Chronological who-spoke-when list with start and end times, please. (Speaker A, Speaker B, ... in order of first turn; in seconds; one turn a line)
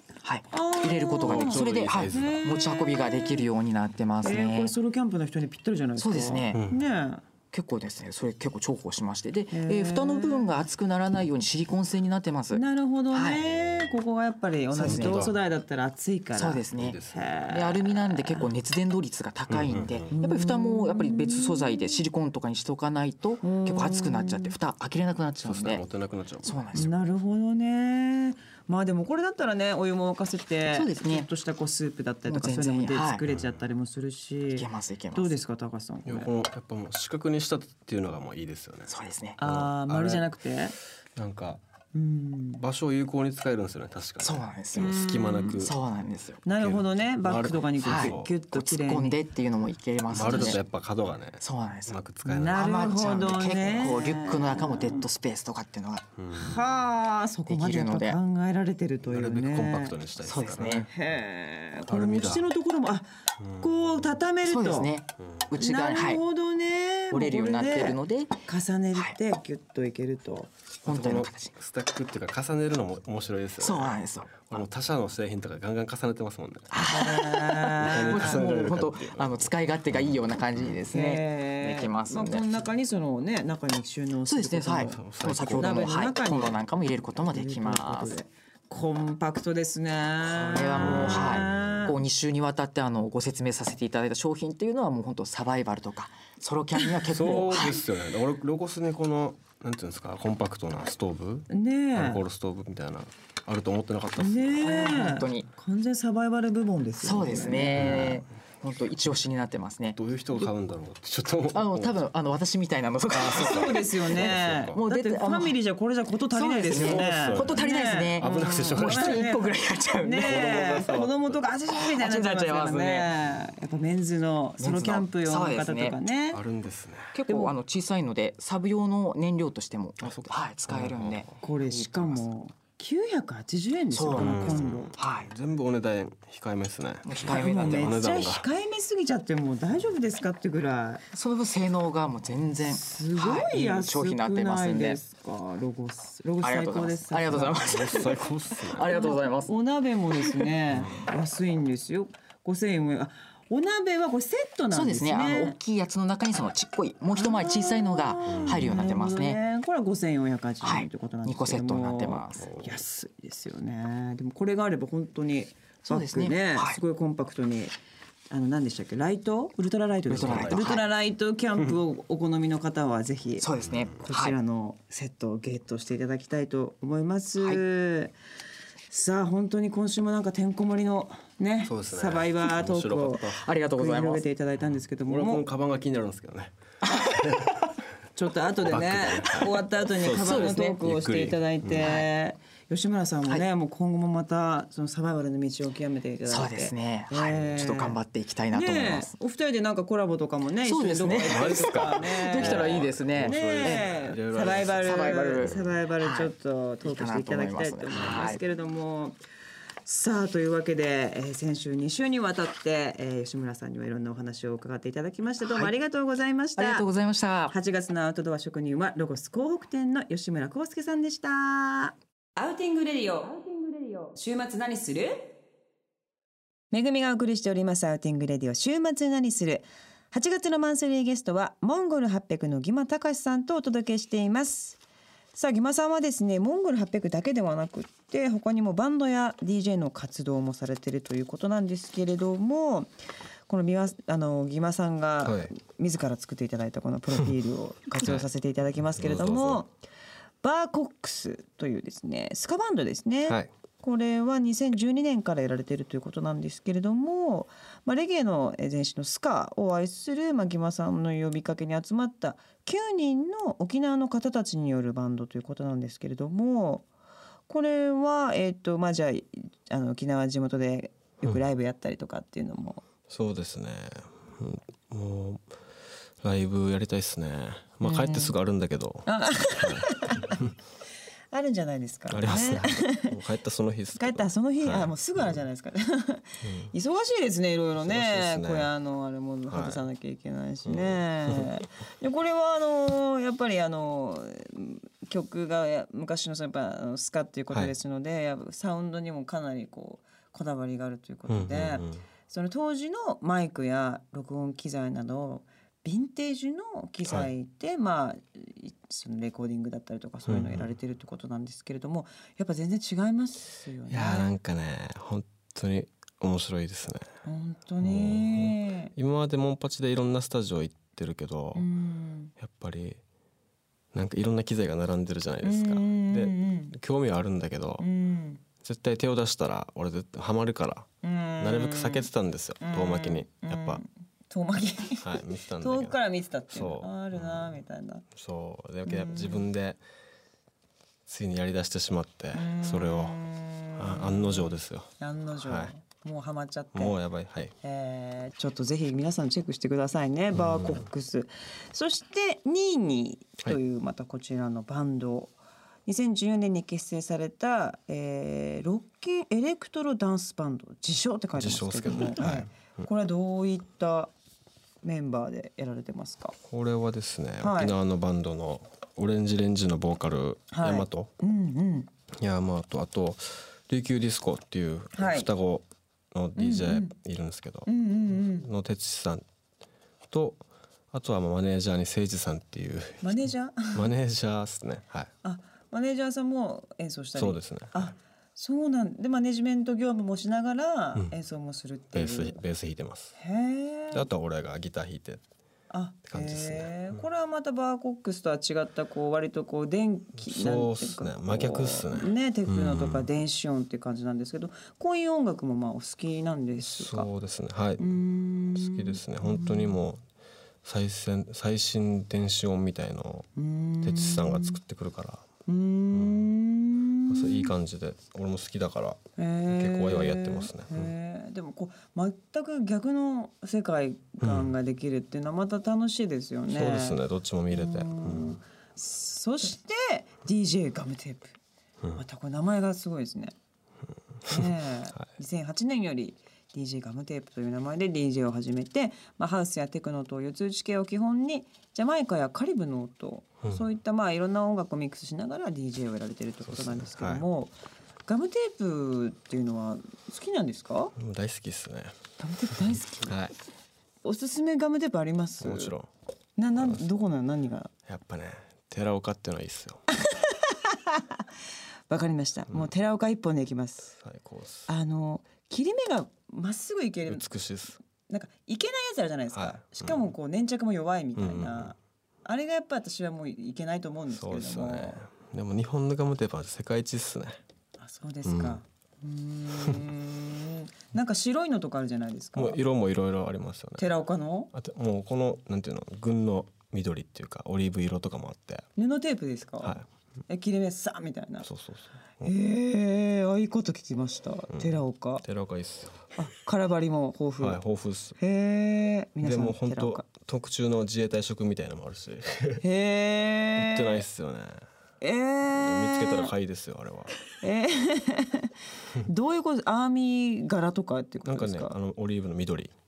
Speaker A: 0.2-4.7
Speaker B: 0.5-3.5
Speaker C: 1.1-2.5
Speaker B: 4.2-7.2
Speaker A: 6.0-6.7
Speaker A: 7.5-13.4
Speaker B: 9.5-10.6
Speaker B: 12.5-18.5
Speaker C: 13.6-13.8
Speaker A: 14.7-15.3
Speaker C: 14.8-15.3
Speaker A: 16.4-25.8
Speaker C: 16.7-17.3
Speaker C: 19.5-20.1
Speaker B: 20.1-22.0
Speaker B: 23.4-24.5
Speaker C: 25.4-26.9
Speaker A: 26.4-26.9
Speaker B: 26.7-36.3
Speaker A: 30.7-31.3
Speaker A: 32.3-33.2
Speaker C: 33.3-33.6
Speaker A: 34.5-35.4
Speaker C: 36.1-40.3
Speaker A: 38.9-39.4
Speaker B: 39.4-40.8
Speaker C: 41.1-41.6
Speaker B: 41.9-42.6
Speaker C: 42.6-45.8
Speaker A: 44.2-45.0
Speaker B: 44.8-45.6
Speaker A: 45.6-46.4
Speaker B: 46.4-49.2
Speaker C: 46.5-48.3
Speaker A: 47.8-50.6
Speaker C: 50.1-52.7
Speaker B: 50.2-50.5
Speaker A: 51.4-56.1
Speaker B: 52.2-55.1
Speaker C: 56.2-56.7
Speaker B: 56.3-60.0
Speaker A: 57.5-58.2
Speaker C: 59.0-60.9
Speaker A: 60.2-60.9
Speaker B: 60.9-63.1
Speaker C: 61.9-62.5
Speaker C: 63.4-64.1
Speaker B: 63.6-64.9
Speaker A: 64.4-66.2
Speaker B: 65.5-70.5
Speaker A: 67.1-68.4
Speaker A: 70.8-71.5
Speaker C: 70.8-76.7
Speaker A: 73.6-74.6
Speaker A: 76.7-82.6
Speaker B: 76.8-78.5
Speaker C: 77.8-80.8
Speaker B: 80.9-86.6
Speaker A: 84.2-88.1
Speaker C: 84.9-85.9
Speaker B: 87.2-92.0
Speaker A: 90.2-97.8
Speaker C: 90.8-91.9
Speaker C: 97.1-104.9
Speaker B: 101.5-102.2
Speaker B: 104.2-108.2
Speaker A: 104.6-105.5
Speaker A: 107.0-110.5
Speaker C: 107.7-108.2
Speaker C: 110.0-112.0
Speaker A: 111.5-115.5
Speaker C: 113.1-114.8
Speaker B: 113.2-126.4
Speaker A: 116.3-120.9
Speaker C: 116.6-119.2
Speaker C: 120.2-121.4
Speaker A: 121.7-123.1
Speaker A: 124.6-126.0
Speaker C: 126.3-127.2
Speaker A: 127.1-132.2
Speaker B: 127.3-127.5
Speaker C: 130.0-131.4
Speaker B: 131.4-134.9
Speaker A: 133.9-135.3
Speaker C: 134.1-138.4
Speaker A: 137.0-138.0
Speaker B: 137.3-141.0
Speaker A: 141.1-145.0
Speaker B: 142.6-148.1
Speaker A: 146.4-149.5
Speaker C: 147.5-148.9
Speaker B: 148.9-155.6
Speaker A: 150.2-150.9
Speaker C: 150.7-151.0
Speaker A: 154.7-159.4
Speaker B: 157.2-167.7
Speaker C: 158.3-158.9
Speaker A: 160.6-162.5
Speaker C: 162.4-162.8
Speaker A: 165.8-166.8
Speaker B: 168.3-173.5
Speaker C: 170.1-170.6
Speaker A: 170.1-170.8
Speaker A: 173.4-174.3
Speaker C: 173.7-173.9
Speaker B: 174.0-178.1
Speaker A: 177.4-177.6
Speaker B: 178.9-185.4
Speaker C: 181.6-183.4
Speaker A: 183.3-184.2
Speaker C: 185.1-187.5
Speaker A: 186.9-187.2
Speaker B: 188.2-198.0
Speaker C: 188.6-191.9
Speaker A: 189.1-189.5
Speaker A: 190.0-190.8
Speaker A: 191.8-192.1
Speaker A: 196.3-199.1
Speaker B: 198.5-209.2
Speaker A: 200.6-203.9
Speaker C: 201.0-205.7
Speaker A: 204.6-206.3
Speaker A: 206.8-208.4
Speaker B: 209.8-216.8
Speaker A: 215.4-215.7
Speaker A: 216.6-217.5
Speaker B: 217.5-225.3
Speaker B: 226.7-234.8
Speaker B: 235.3-242.9
Speaker B: 243.5-249.7
Speaker C: 245.2-245.5
Speaker C: 248.9-249.6
Speaker B: 250.4-266.9
Speaker B: 267.5-272.8
Speaker C: 273.1-275.4
Speaker C: 276.2-280.5
Speaker B: 277.8-278.4
Speaker B: 279.1-280.4
Speaker B: 281.3-283.1
Speaker C: 282.1-285.4
Speaker B: 283.9-314.4
Speaker C: 286.4-286.7
Speaker C: 287.8-288.7
Speaker C: 289.5-289.8
Speaker C: 290.6-291.5
Speaker C: 301.3-302.0
Speaker C: 310.3-310.7
Speaker C: 313.9-317.1
Speaker B: 317.2-318.9
Speaker C: 317.8-321.6
Speaker B: 321.5-322.3
Speaker C: 322.4-323.0
Speaker C: 323.9-327.9
Speaker B: 325.4-326.8
Speaker B: 327.8-328.4
Speaker C: 328.6-330.9
Speaker B: 331.0-332.1
Speaker C: 331.4-333.8
Speaker B: 332.6-338.0
Speaker C: 335.0-336.0
Speaker C: 336.5-337.6
Speaker C: 338.1-339.8
Speaker B: 338.8-339.4
Speaker C: 341.1-343.2
Speaker B: 342.3-347.0
Speaker C: 343.8-345.7
Speaker C: 346.7-347.5
Speaker B: 347.6-364.1
Speaker C: 350.3-350.8
Speaker C: 361.4-362.9
Speaker B: 364.8-366.3
Speaker C: 366.5-371.1
Speaker B: 367.4-367.7
Speaker B: 370.5-371.9
Speaker C: 372.2-379.2
Speaker B: 374.9-375.3
Speaker B: 376.4-376.9
Speaker B: 377.6-378.5
Speaker C: 380.1-385.1
Speaker B: 383.0-383.9
Speaker B: 385.2-392.4
Speaker C: 387.1-387.9
Speaker C: 391.9-393.1
Speaker B: 393.2-394.1
Speaker C: 393.9-395.2
Speaker B: 395.7-407.1
Speaker C: 396.1-397.0
Speaker C: 400.2-403.1
Speaker C: 406.6-407.9
Speaker B: 407.8-409.8
Speaker C: 408.5-410.0
Speaker C: 410.6-413.3
Speaker B: 413.4-414.6
Speaker C: 413.8-415.2
Speaker B: 415.5-417.5
Speaker C: 415.9-416.3
Speaker C: 417.1-420.9
Speaker B: 419.2-427.0
Speaker C: 424.2-424.5
Speaker C: 426.5-428.4
Speaker B: 427.5-431.4
Speaker B: 432.0-433.3
Speaker B: 434.3-447.5
Speaker C: 446.4-447.2
Speaker B: 448.1-450.9
Speaker C: 451.0-451.9
Speaker B: 452.2-453.1
Speaker C: 453.0-453.3
Speaker B: 454.0-455.7
Speaker C: 455.4-455.9
Speaker B: 456.4-457.7
Speaker C: 457.9-459.8
Speaker B: 460.1-461.0
Speaker B: 461.9-463.9
Speaker C: 463.9-464.7
Speaker B: 464.7-467.2
Speaker C: 467.1-467.8
Speaker B: 468.1-475.0
Speaker C: 469.3-470.0
Speaker C: 471.2-471.7
Speaker C: 474.1-477.4
Speaker B: 477.8-482.6
Speaker C: 478.2-478.6
Speaker C: 482.4-483.9
Speaker B: 483.8-484.5
Speaker C: 484.5-488.6
Speaker B: 488.8-491.4
Speaker C: 491.4-492.3
Speaker B: 492.2-495.2
Speaker C: 494.5-496.1
Speaker B: 496.1-497.6
Speaker C: 497.4-498.2
Speaker B: 498.2-500.0
Speaker C: 499.2-502.6
Speaker B: 502.6-504.0
Speaker C: 503.6-504.6
Speaker B: 505.0-506.3
Speaker C: 505.5-507.2
Speaker B: 507.4-508.5
Speaker B: 509.1-511.7
Speaker C: 511.2-512.7